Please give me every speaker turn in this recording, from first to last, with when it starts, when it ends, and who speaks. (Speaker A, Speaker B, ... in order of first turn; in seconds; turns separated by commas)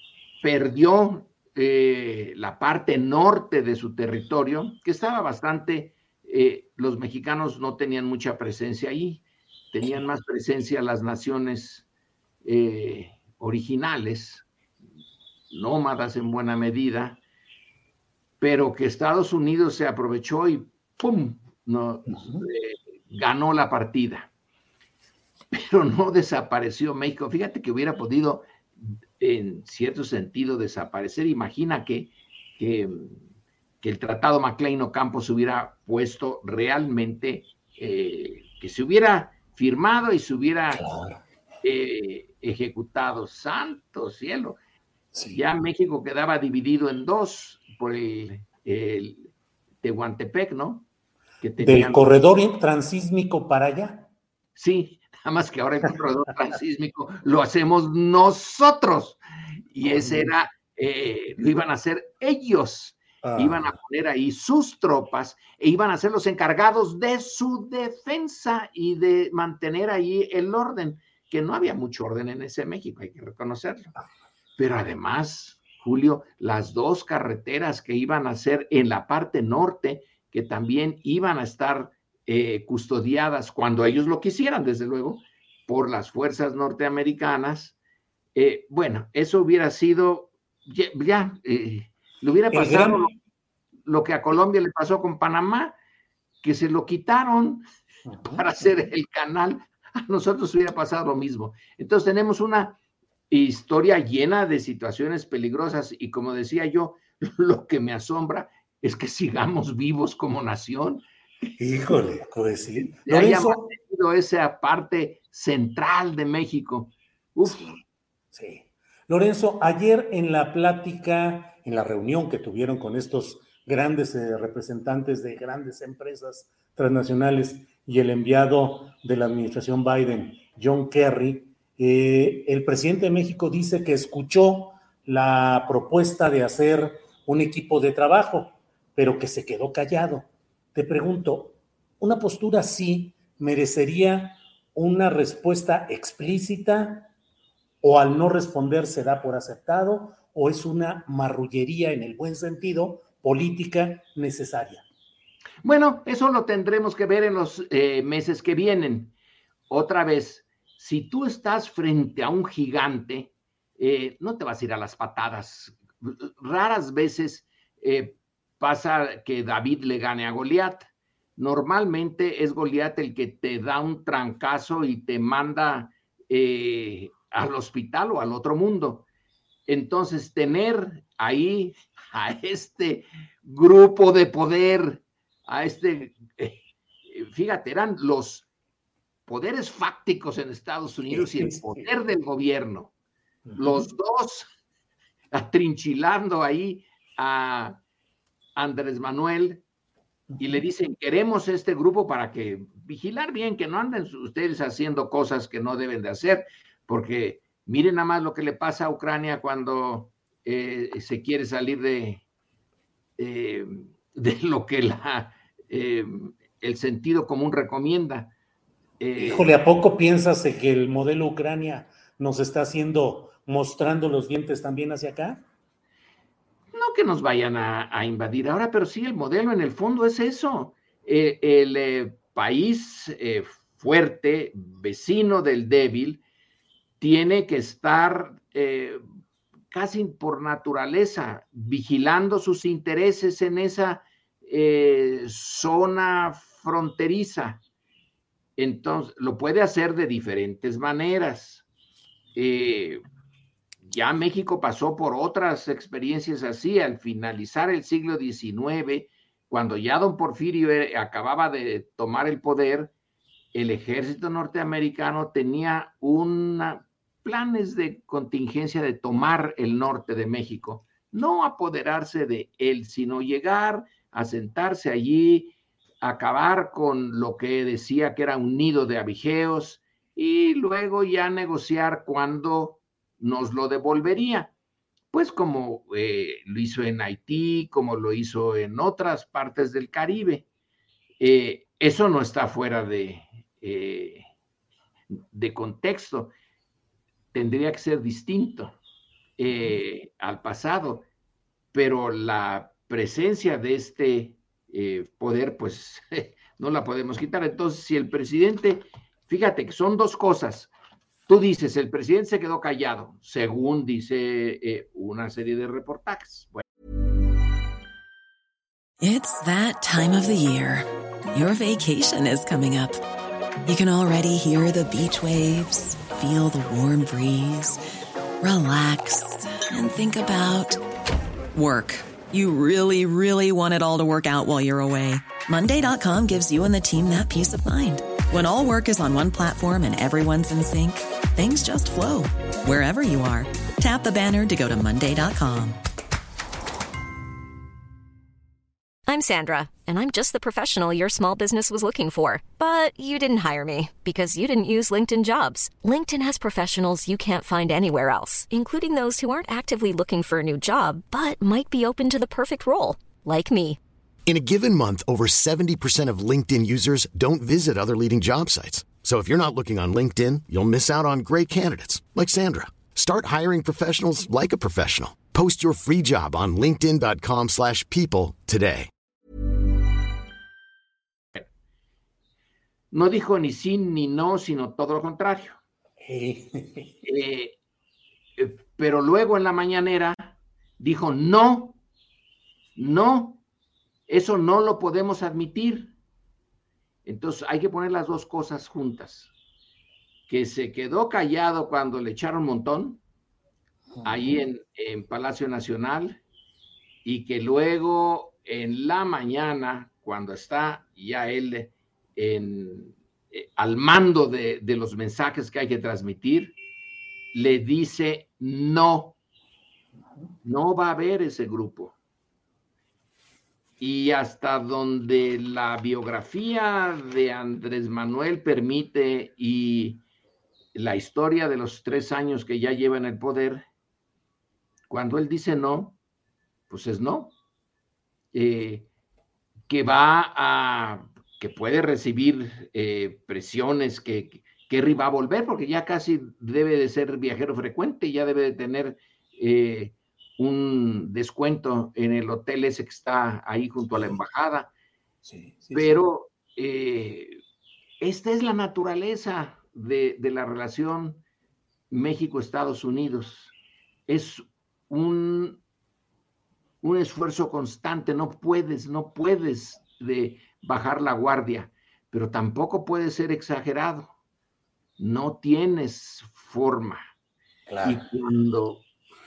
Speaker A: 0.4-11.8, Speaker A: 12.4-14.4, Speaker A: 15.5-17.2, Speaker A: 18.4-24.3, Speaker B: 22.1-22.4, Speaker A: 25.5-33.2, Speaker A: 33.8-40.8, Speaker B: 40.7-41.2, Speaker A: 41.6-44.6, Speaker B: 45.1-45.4, Speaker A: 45.3-49.3, Speaker A: 49.8-50.9, Speaker A: 51.4-52.1, Speaker B: 51.6-54.1, Speaker A: 54.5-59.2, Speaker A: 59.7-73.9, Speaker B: 59.8-60.3, Speaker B: 63.2-63.7, Speaker A: 74.6-87.8, Speaker A: 88.3-93.2, Speaker B: 92.5-93.0, Speaker A: 93.8-95.7, Speaker A: 96.4-97.7, Speaker B: 98.0-98.8, Speaker A: 98.2-102.8, Speaker A: 103.3-111.0, Speaker B: 111.6-113.7, Speaker A: 113.0-117.7, Speaker B: 117.4-147.1, Speaker B: 147.8-154.8, Speaker A: 155.6-159.1, Speaker A: 159.7-179.1, Speaker A: 179.7-188.5, Speaker A: 189.3-192.9, Speaker B: 191.1-191.9, Speaker B: 193.5-193.9, Speaker A: 193.6-194.5, Speaker A: 195.3-197.8, Speaker A: 198.6-199.6, Speaker B: 200.3-200.6, Speaker A: 200.4-212.2, Speaker A: 213.2-218.3, Speaker A: 219.0-219.5, Speaker B: 219.2-225.4, Speaker A: 226.7-236.2, Speaker A: 237.0-239.0, Speaker A: 239.7-247.6, Speaker A: 248.6-251.6, Speaker A: 252.3-253.0, Speaker A: 253.8-262.9, Speaker A: 263.5-284.5, Speaker A: 285.1-290.5, Speaker A: 291.2-294.2, Speaker A: 295.3-296.3, Speaker A: 297.3-298.8, Speaker A: 299.4-301.0, Speaker B: 299.5-299.8, Speaker A: 301.7-310.7, Speaker A: 311.3-316.6, Speaker C: 319.0-323.0, Speaker C: 323.6-327.8, Speaker C: 328.4-330.8, Speaker C: 331.5-345.8, Speaker D: 349.1-363.8, Speaker E: 364.3-378.9, Speaker A: 382.9-385.6, Speaker B: 386.0-386.9, Speaker A: 387.1-387.6, Speaker A: 388.4-391.8, Speaker A: 392.8-393.4, Speaker A: 394.1-395.9, Speaker A: 397.0-399.3, Speaker A: 400.3-403.0, Speaker B: 403.9-404.4, Speaker A: 404.0-406.2, Speaker A: 407.0-416.5, Speaker A: 417.3-419.1, Speaker A: 420.4-421.9, Speaker A: 423.8-430.0, Speaker A: 430.7-433.6, Speaker A: 434.9-436.0, Speaker A: 436.7-437.3, Speaker A: 438.3-438.9, Speaker A: 439.7-454.7, Speaker B: 453.9-454.1, Speaker B: 455.2-456.1, Speaker A: 455.7-457.4, Speaker A: 458.0-461.2, Speaker A: 461.9-463.5, Speaker A: 464.1-465.6, Speaker A: 466.8-474.1, Speaker A: 475.0-477.0, Speaker B: 477.7-478.0, Speaker A: 477.8-478.8